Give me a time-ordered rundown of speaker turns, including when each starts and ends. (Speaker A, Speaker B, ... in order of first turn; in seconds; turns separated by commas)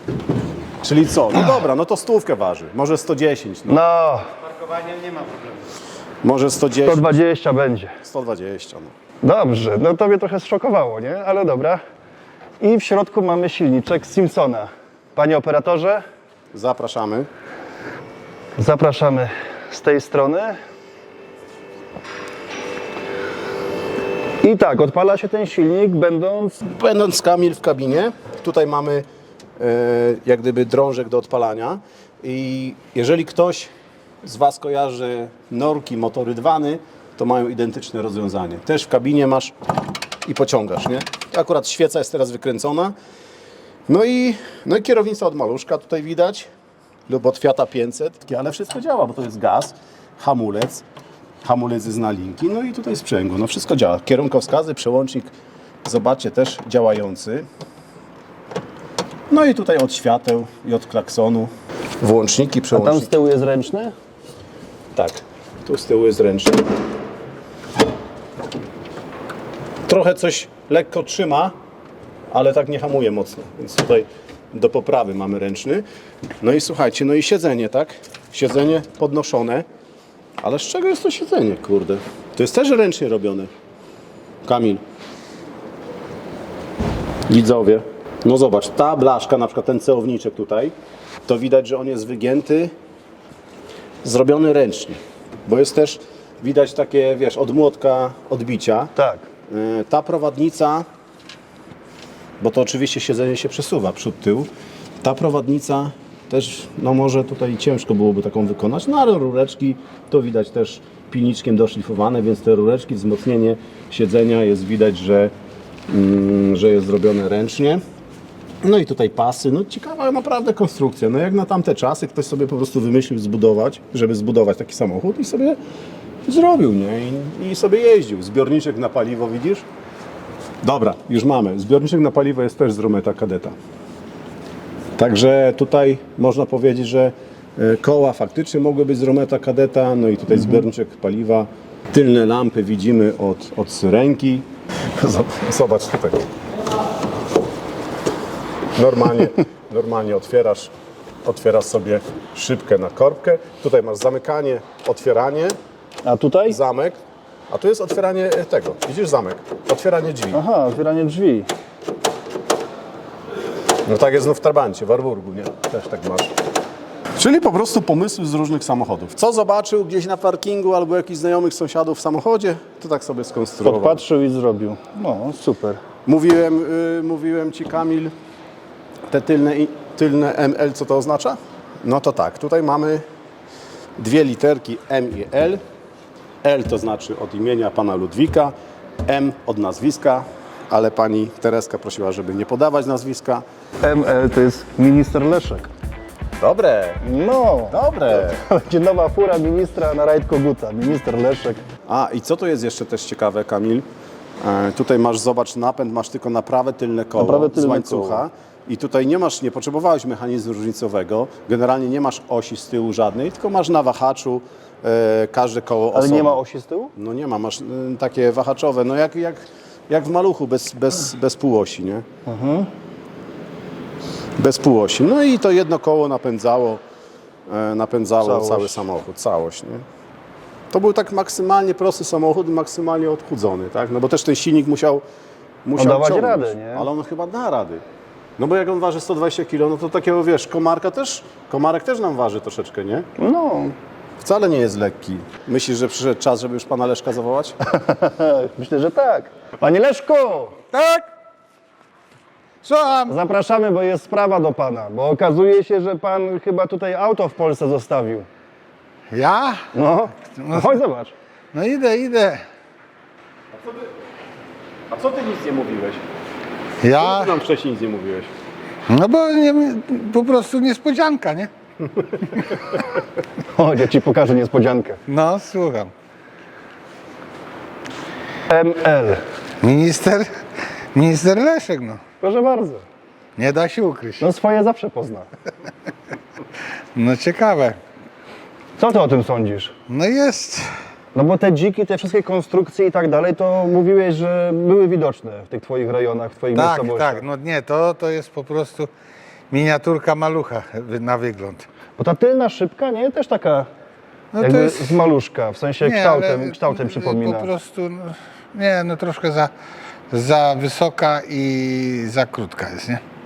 Speaker A: 0.8-3.8, Speaker B: 3.7-4.3, Speaker A: 4.8-5.3, Speaker A: 6.2-7.2, Speaker B: 6.8-8.0, Speaker A: 8.0-8.9, Speaker B: 9.2-11.8, Speaker B: 12.6-16.0, Speaker A: 16.5-17.3, Speaker B: 18.6-20.6, Speaker B: 24.4-26.6, Speaker A: 26.6-29.0, Speaker A: 29.6-33.7, Speaker A: 34.2-39.5, Speaker A: 40.2-42.9, Speaker A: 43.9-46.5, Speaker A: 47.1-50.8, Speaker A: 51.4-55.3, Speaker A: 55.8-57.5, Speaker A: 59.3-63.1, Speaker B: 62.7-63.9, Speaker A: 64.9-66.6, Speaker A: 69.9-71.5, Speaker A: 72.3-75.8, Speaker A: 76.4-79.7, Speaker A: 80.4-83.5, Speaker A: 84.4-84.8, Speaker A: 87.3-90.7, Speaker A: 91.2-92.7, Speaker A: 94.0-98.9, Speaker B: 99.0-99.3, Speaker A: 99.5-100.9, Speaker A: 102.4-104.5, Speaker A: 105.0-115.3, Speaker A: 115.9-117.8, Speaker A: 118.6-125.6, Speaker A: 126.2-129.7, Speaker A: 130.6-133.5, Speaker A: 135.0-146.2, Speaker A: 148.8-150.7, Speaker A: 151.2-155.5, Speaker B: 156.0-156.6, Speaker A: 156.5-160.4, Speaker B: 160.3-161.5, Speaker A: 163.8-166.3, Speaker A: 167.2-174.0, Speaker B: 173.6-175.8, Speaker A: 176.1-178.1, Speaker A: 179.1-183.0, Speaker A: 184.0-185.6, Speaker A: 186.4-188.5, Speaker A: 189.1-193.4, Speaker B: 193.8-195.7, Speaker A: 196.4-197.0, Speaker B: 197.0-201.6, Speaker A: 197.7-198.4, Speaker A: 201.9-203.8, Speaker A: 204.4-216.4, Speaker B: 207.2-208.2, Speaker B: 215.9-216.9, Speaker A: 216.9-222.1, Speaker B: 222.2-222.7, Speaker A: 224.4-226.8, Speaker A: 227.5-229.8, Speaker B: 228.2-228.8, Speaker A: 230.7-235.0, Speaker A: 235.6-237.8, Speaker B: 235.8-236.9, Speaker A: 238.4-243.1, Speaker B: 243.2-243.8, Speaker A: 244.2-247.6, Speaker B: 247.7-250.6, Speaker C: 250.7-251.1, Speaker C: 252.6-253.1, Speaker B: 253.1-258.3, Speaker C: 259.1-259.6, Speaker B: 259.7-261.1, Speaker C: 260.3-260.8, Speaker C: 261.5-262.4, Speaker A: 263.6-263.8, Speaker A: 264.9-266.0, Speaker C: 266.8-267.4, Speaker A: 266.9-268.3, Speaker C: 268.9-271.5, Speaker B: 273.5-275.0, Speaker C: 275.1-275.9, Speaker B: 278.5-279.2, Speaker C: 279.6-280.3, Speaker C: 280.9-282.0, Speaker B: 282.2-282.8, Speaker C: 283.4-284.3, Speaker B: 284.2-285.3, Speaker C: 286.9-287.8, Speaker B: 288.8-289.8, Speaker C: 289.9-290.7, Speaker B: 291.1-297.2, Speaker C: 296.5-298.9, Speaker C: 299.5-301.7, Speaker B: 302.0-303.7, Speaker C: 304.3-305.0, Speaker B: 304.4-307.5, Speaker C: 305.8-309.5, Speaker C: 310.1-313.0